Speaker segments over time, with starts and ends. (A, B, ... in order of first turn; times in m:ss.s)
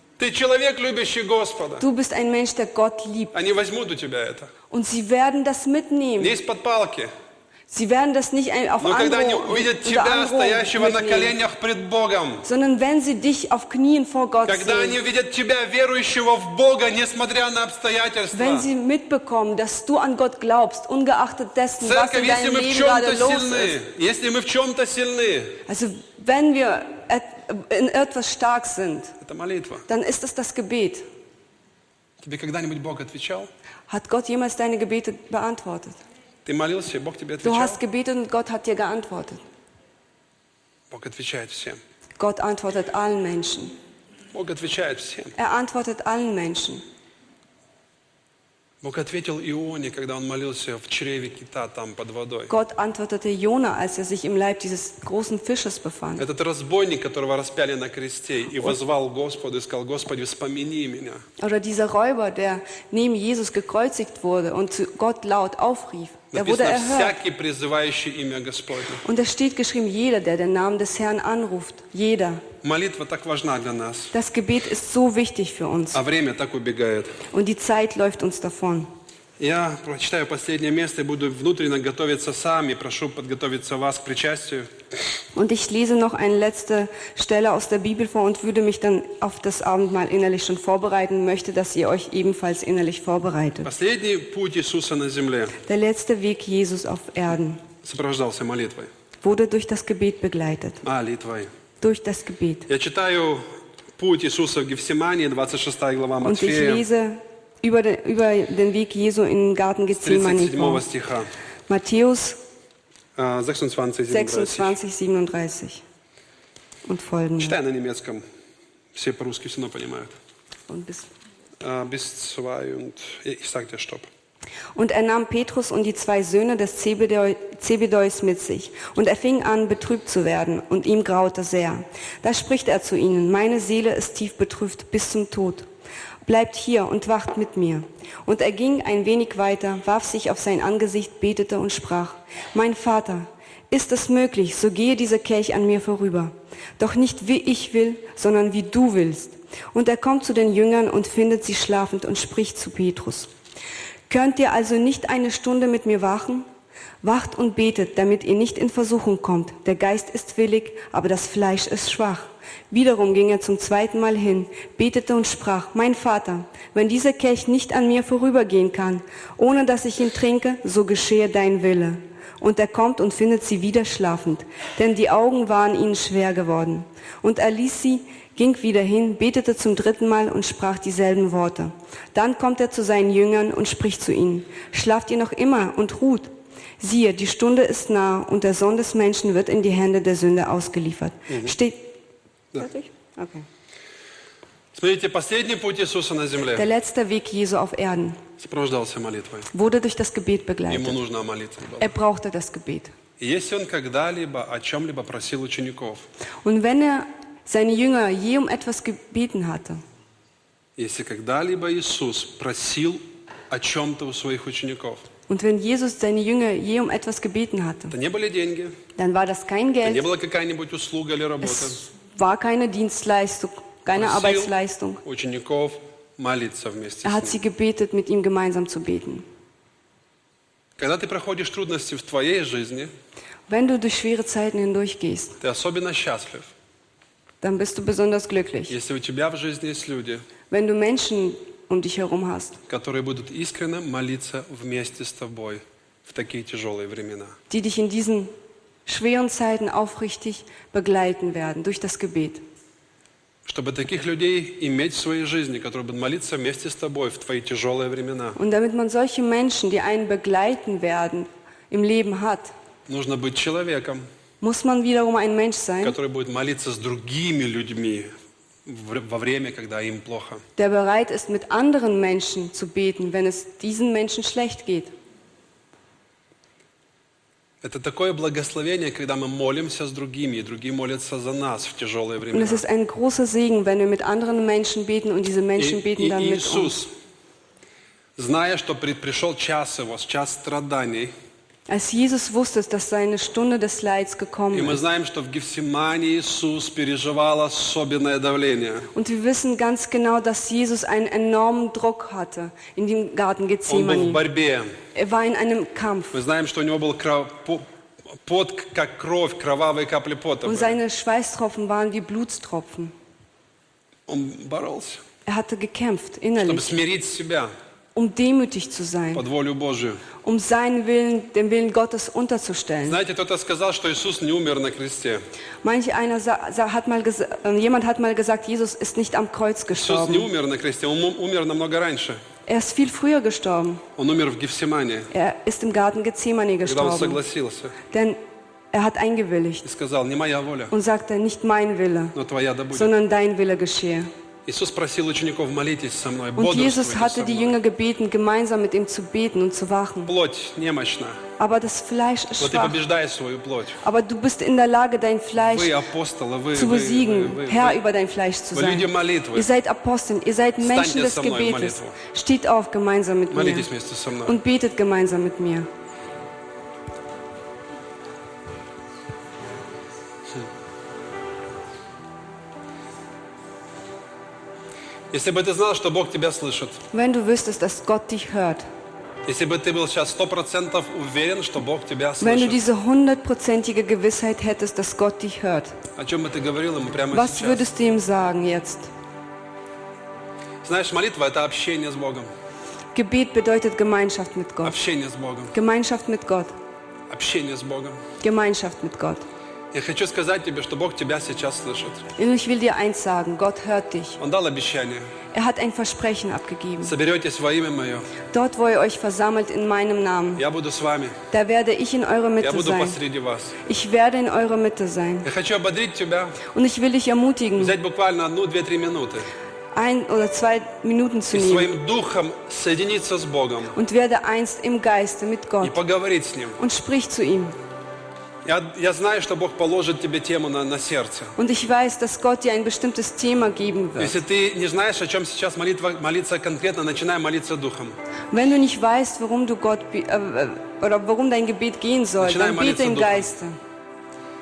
0:00.2-0:01.8 A
0:01.8-0:03.3 B
0:03.3-0:04.5 A
0:04.7-0:06.4 B
0:06.2-0:07.1 A
0:07.7-0:11.4 B
0:08.8-0:12.4 A
0:12.4-0:15.0 B
0:14.4-0:18.7 A
0:18.3-0:23.8 B
0:21.8-0:25.6 A
0:25.7-0:29.1 B
0:29.2-0:29.8 A
0:29.9-0:31.0 B
0:32.2-0:33.5 A
0:33.9-0:36.0 B
0:36.4-0:37.8 A
0:37.4-0:39.4 B
0:40.9-0:41.8 A
0:42.2-0:43.7 B
0:44.3-0:45.3 A
0:45.4-0:46.8 B
0:48.8-0:52.5 A
0:52.5-0:56.2 B
0:56.2-1:01.2 A
1:01.4-1:07.2 B
1:06.3-1:09.0 A
1:09.0-1:12.4 B
1:12.6-1:14.1 A
1:14.1-1:16.0 B
1:15.9-1:17.2 A
1:17.3-1:18.9 B
1:19.4-1:24.7 A
1:25.3-1:33.7 B
1:33.6-1:35.6 A
1:35.6-1:37.6 B
1:37.8-1:38.9 A
1:39.2-1:40.8 B
1:40.8-1:41.5 A
1:41.8-1:42.7 B
1:42.7-1:43.4 A
1:44.0-1:46.8 A
1:46.2-1:50.8 B
1:50.0-1:51.3 A
1:51.7-1:52.4 B
1:53.2-1:54.8 A
1:54.1-1:55.8 B
1:56.9-1:57.6 B
1:57.4-1:58.2 A
1:58.9-2:00.1 A
2:00.7-2:01.1 B
2:01.6-2:04.1 A
2:04.8-2:15.7 B
2:16.2-2:33.3 B
2:34.1-2:36.4 B
2:37.0-3:06.3 B
3:06.8-3:12.0 B
3:11.3-3:11.6 A
3:12.6-3:13.4 B
3:14.7-3:16.7 A
3:16.5-3:18.2 B
3:18.4-3:19.5 A
3:19.5-3:21.0 B
3:20.7-3:21.9 A
3:21.8-3:22.9 B
3:23.2-3:26.1 A
3:26.4-3:29.8 B
3:30.8-3:35.0 A
3:35.3-3:37.9 B
3:37.9-3:38.8 A
3:39.0-3:40.1 B
3:39.8-3:41.8 A
3:41.4-3:45.0 B
3:43.9-3:47.4 A
3:47.0-3:49.2 B
3:50.8-3:52.9 A
3:53.5-3:55.4 B
3:55.4-3:56.5 A
3:57.4-3:58.7 B
3:58.7-4:00.2 A
4:00.5-4:02.6 B
4:02.7-4:07.4 A
4:07.5-4:08.3 B
4:08.8-4:12.4 B
4:13.4-4:18.4 A
4:18.4-4:22.5 B
4:22.9-4:24.0 A
4:24.4-4:26.0 B
4:25.8-4:28.1 A
4:28.6-4:30.4 A
4:30.6-4:34.9 B
4:37.6-4:42.6 A
4:42.3-4:46.9 B
4:45.6-4:46.9 A
4:48.2-4:51.1 A
4:51.7-4:54.8 B
4:54.5-4:58.9 A
4:58.9-5:04.2 B
5:03.7-5:04.7 A
5:04.9-5:06.2 B
5:06.1-5:10.8 A
5:10.4-5:12.9 B
5:14.1-5:15.0 A
5:15.2-5:16.7 B
5:16.4-5:17.5 A
5:17.9-5:19.2 B
5:19.1-5:20.0 A
5:20.2-5:23.0 B
5:22.8-5:25.2 A
5:25.6-5:30.3 B
5:29.7-5:32.2 A
5:32.4-5:33.8 B
5:34.0-5:35.1 A
5:35.1-5:37.2 B
5:36.6-5:37.7 A
5:37.9-5:38.2 B
5:38.7-5:39.6 B
5:39.6-5:40.7 A
5:40.7-5:42.1 B
5:42.1-5:42.9 A
5:42.7-5:44.1 B
5:44.4-5:47.6 A
5:46.4-5:50.1 B
5:50.0-5:51.2 A
5:51.4-5:52.8 B
5:52.4-5:53.8 A
5:53.8-5:55.8 B
5:55.4-5:57.8 A
5:56.5-6:03.7 B
5:58.5-5:59.5 A
6:00.6-6:02.0 A
6:03.3-6:04.4 A
6:04.2-6:05.7 B
6:15.1-6:16.8 A
6:16.9-6:18.6 B
6:19.2-6:22.6 A
6:22.2-6:25.7 B
6:26.0-6:27.7 A
6:27.1-6:28.9 B
6:30.6-6:32.3 A
6:32.9-6:34.8 B
6:34.6-6:35.5 A
6:35.5-6:36.5 B
6:37.1-6:38.0 A
6:38.2-6:39.2 B
6:39.7-6:42.0 A
6:42.2-6:44.2 B
6:44.2-6:45.1 A
6:45.3-6:46.9 B
6:46.8-6:48.1 A
6:48.3-6:50.4 B
6:50.4-6:51.2 A
6:51.3-6:53.0 B
6:52.4-6:53.6 A
6:53.6-6:55.3 B
6:55.2-6:56.4 A
6:56.5-6:57.7 B
6:57.6-6:59.3 A
6:59.7-7:01.7 B
7:01.3-7:03.8 A
7:03.7-7:05.8 B
7:05.6-7:06.6 A
7:06.6-7:07.6 B
7:08.4-7:11.3 A
7:11.4-7:14.2 B
7:14.0-7:18.0 A
7:18.3-7:23.6 B
7:22.2-7:23.3 A